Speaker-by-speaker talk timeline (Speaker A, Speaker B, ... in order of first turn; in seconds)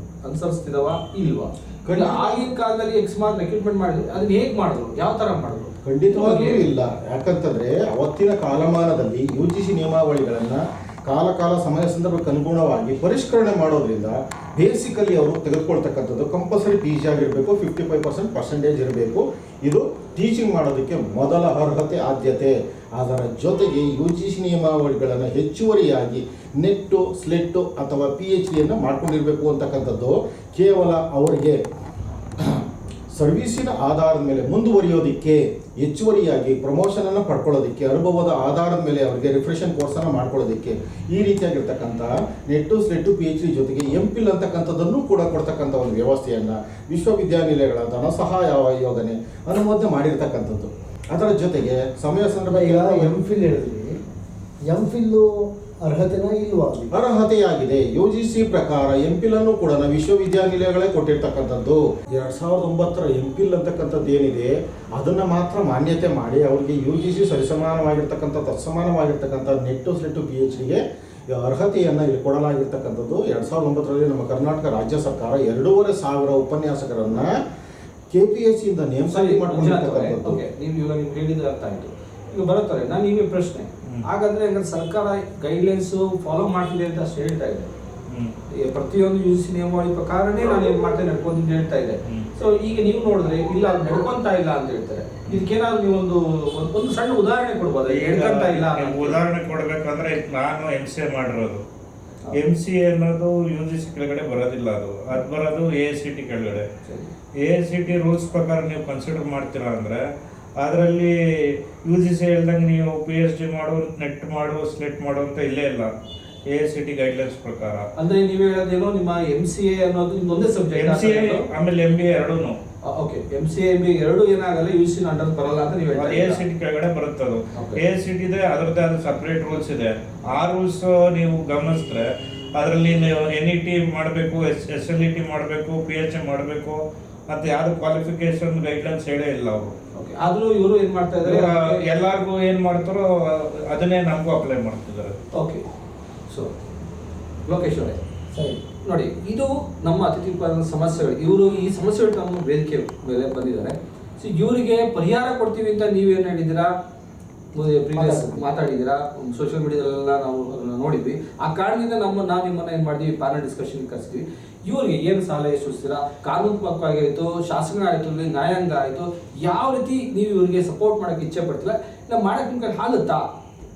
Speaker A: 0.2-6.7, 79.1-87.7, 88.6-99.2, 106.8-107.1, 118.0-121.5, 122.9-126.4, 127.5-127.8, 139.9-141.8, 145.3-145.6, 147.5-148.0, 148.8-156.7, 157.5-173.2
Speaker B: 1.9-2.5, 5.8-31.6, 32.4-53.2, 56.9-77.4, 78.1-80.4
Speaker C: 52.5-54.0, 54.7-56.9, 148.3-148.6, 158.0-158.3
Speaker D: 97.9-101.6, 102.3-106.7, 107.4-110.0, 110.6-111.1, 111.8-115.9, 116.5-117.9, 120.7-122.6, 125.9-139.8, 141.2-143.1, 143.7-145.1